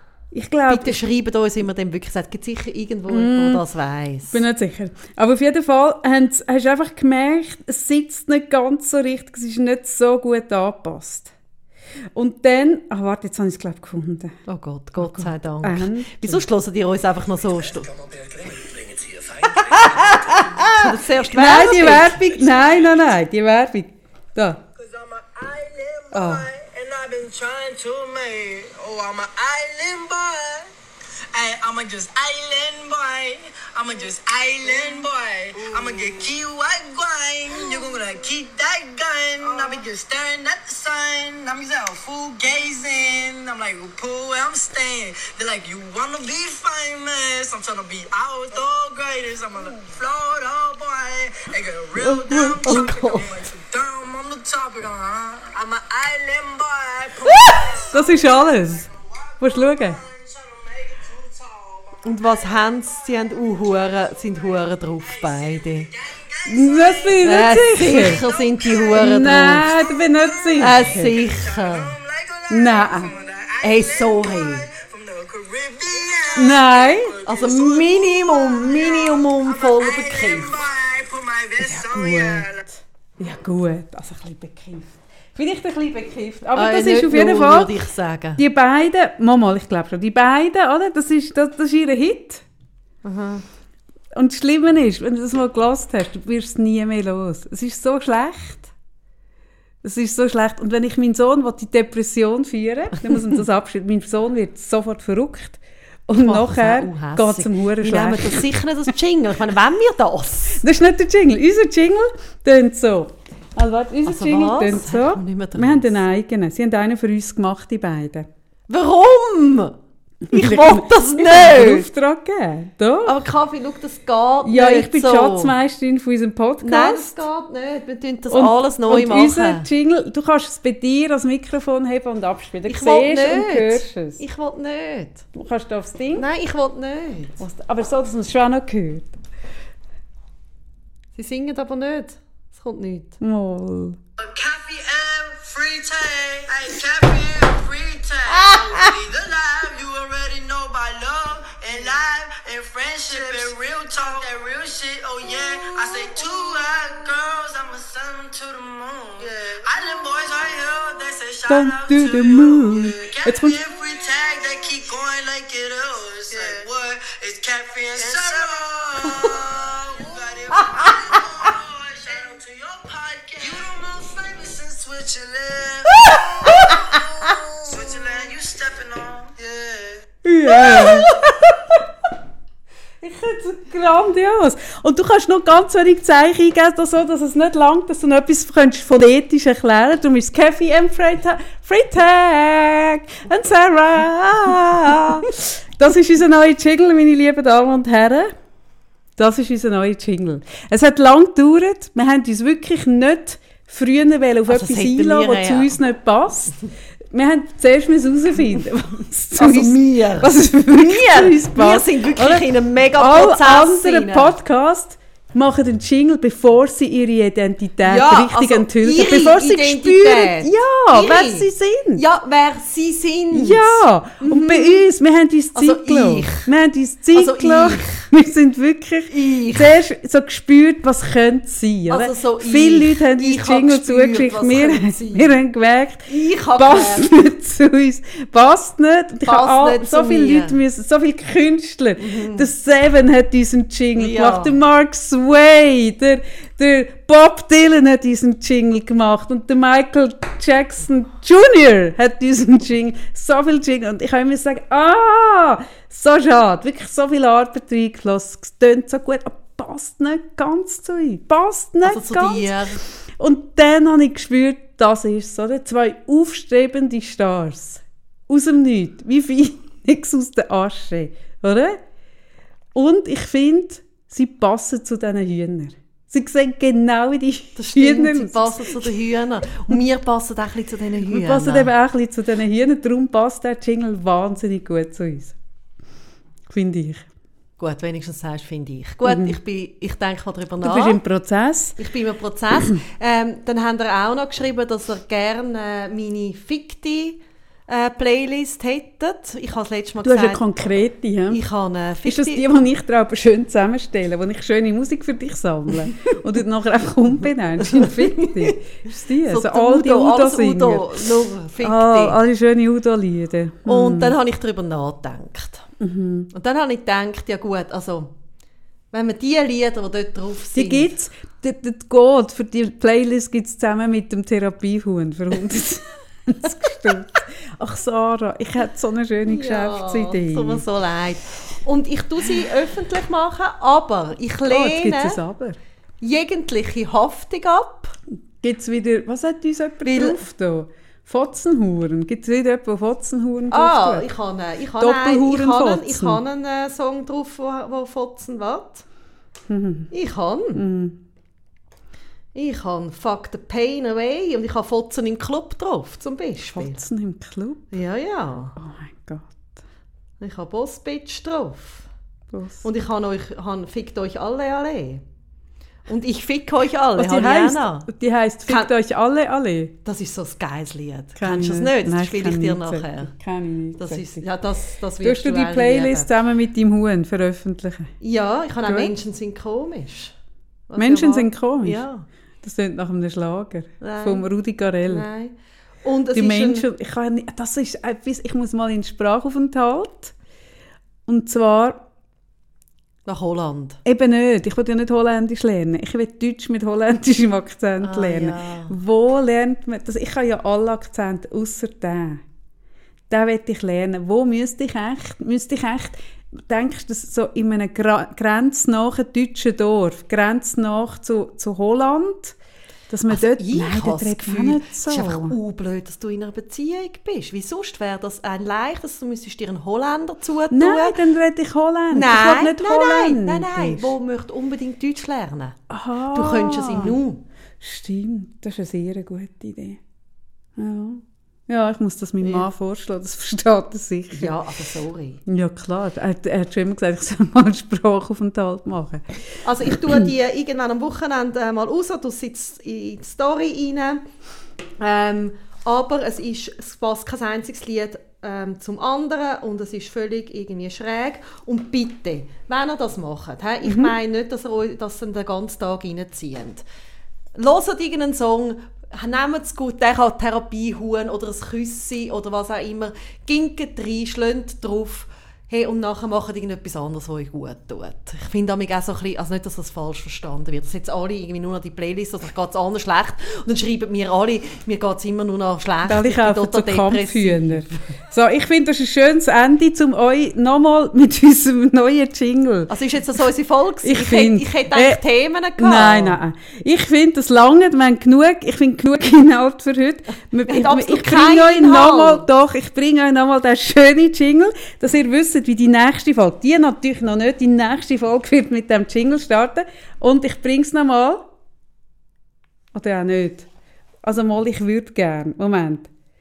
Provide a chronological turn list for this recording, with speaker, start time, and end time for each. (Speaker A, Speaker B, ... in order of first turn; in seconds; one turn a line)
Speaker A: 0.3-1.0
Speaker B: 0.7-4.4
Speaker A: 3.1-3.6
Speaker A: 4.3-11.3
Speaker A: 12.1-14.4
Speaker B: 14.5-17.9
Speaker A: 15.0-16.4
Speaker C: 18.1-20.4
Speaker A: 19.7-24.6
Speaker B: 19.7-22.2
Speaker C: 24.8-30.7
Speaker A: 26.1-26.5
Speaker C: 31.3-58.4
Speaker B: 52.0-53.4
Speaker A: 52.3-52.7
Speaker B: 57.4-57.8
Speaker A: 57.9-58.9
Speaker C: 59.4-62.0
Speaker A: 59.4-60.0
Speaker B: 62.0-65.9
Speaker C: 65.2-82.6
Speaker A: 66.4-68.2
Speaker B: 67.2-69.7
Speaker A: 68.9-71.1
Speaker B: 70.6-71.9
Speaker A: 72.5-73.1
Speaker B: 73.6-74.7
Speaker A: 76.3-77.2
Speaker B: 77.2-80.6
Speaker A: 81.6-87.7
Speaker B: 86.5-88.4
Speaker A: 88.4-92.4
Speaker B: 93.0-93.4
Speaker A: 94.1-98.7
Speaker A: 99.8-108.5
Speaker B: 106.1-110.6
Speaker A: 110.5-118.3
Speaker B: 114.0-116.0
Speaker B: 118.7-119.8
Speaker A: 120.2-123.2
Speaker B: 120.3-121.9
Speaker B: 123.0-125.5
Speaker A: 124.4-127.2
Speaker B: 126.6-129.7
Speaker A: 128.3-134.2
Speaker B: 132.7-135.2
Speaker A: 135.3-136.2
Speaker B: 136.1-137.4
Speaker A: 137.4-139.1
Speaker B: 141.2-143.2
Speaker A: 143.2-144.0
Speaker C: 144.2-179.9
Speaker B: 148.4-148.9
Speaker A: 161.4-163.6
Speaker B: 176.1-177.3
Speaker A: 180.2-181.2
Speaker B: 180.5-181.3
Speaker A: 183.0-198.3
Speaker A: 199.2-206.5
Speaker B: 204.5-205.8
Speaker A: 207.1-212.5
Speaker B: 209.4-214.3
Speaker A: 213.0-222.0
Speaker B: 217.8-224.8
Speaker A: 223.3-262.5
Speaker B: 225.5-226.5
Speaker B: 227.1-228.1
Speaker B: 229.1-229.8
Speaker B: 231.9-235.4
Speaker B: 236.1-237.1
Speaker B: 239.2-240.6
Speaker B: 242.0-242.5
Speaker B: 243.9-244.6
Speaker B: 261.8-262.8
Speaker A: 263.2-271.8
Speaker A: 272.7-278.9
Speaker B: 277.6-281.7
Speaker A: 281.1-285.4
Speaker A: 286.5-287.1
Speaker B: 287.6-291.0
Speaker A: 289.1-289.4
Speaker A: 290.6-291.8
Speaker B: 291.8-300.4
Speaker A: 300.0-301.4
Speaker B: 301.3-302.6
Speaker A: 302.0-311.1
Speaker B: 307.6-308.6
Speaker B: 309.2-312.2
Speaker A: 311.6-314.1
Speaker B: 313.6-315.7
Speaker A: 315.8-316.3
Speaker B: 316.3-318.1
Speaker B: 318.9-320.9
Speaker A: 320.5-330.6
Speaker B: 329.2-335.2
Speaker A: 334.5-335.6
Speaker B: 336.0-337.9
Speaker A: 338.4-344.1
Speaker B: 339.8-340.2
Speaker B: 343.5-348.8
Speaker A: 344.8-346.2
Speaker A: 349.5-349.9
Speaker B: 349.9-350.6
Speaker A: 350.6-351.0
Speaker B: 352.3-356.8
Speaker A: 356.4-357.7
Speaker B: 357.7-358.6
Speaker A: 358.6-359.6
Speaker B: 360.2-361.9
Speaker A: 362.3-362.6
Speaker B: 362.6-365.0
Speaker B: 365.9-367.9
Speaker A: 367.0-369.7
Speaker B: 368.4-368.7
Speaker B: 369.8-373.1
Speaker A: 371.1-374.2
Speaker B: 373.8-376.1
Speaker A: 375.0-377.9
Speaker B: 378.0-380.1
Speaker A: 378.6-378.9
Speaker B: 380.7-382.0
Speaker A: 380.8-381.8
Speaker A: 382.4-385.1
Speaker B: 383.8-384.3
Speaker B: 384.9-386.6
Speaker A: 386.1-390.1
Speaker A: 391.1-391.8
Speaker B: 393.1-393.8
Speaker A: 393.8-402.2
Speaker B: 397.8-398.8
Speaker A: 403.1-412.4
Speaker A: 412.9-415.4
Speaker B: 413.1-421.0
Speaker A: 420.5-423.9
Speaker B: 421.9-425.6
Speaker A: 425.7-427.0
Speaker B: 426.1-427.2
Speaker A: 427.6-429.8
Speaker A: 430.6-434.3
Speaker B: 434.1-435.2
Speaker A: 435.3-440.1
Speaker B: 439.4-444.0
Speaker B: 444.8-456.6
Speaker A: 453.6-453.9
Speaker B: 457.4-477.8
Speaker A: 475.9-482.7
Speaker B: 482.7-486.2
Speaker A: 483.8-485.0
Speaker A: 485.6-501.3
Speaker B: 490.4-492.2
Speaker A: 502.7-503.5
Speaker A: 504.0-505.9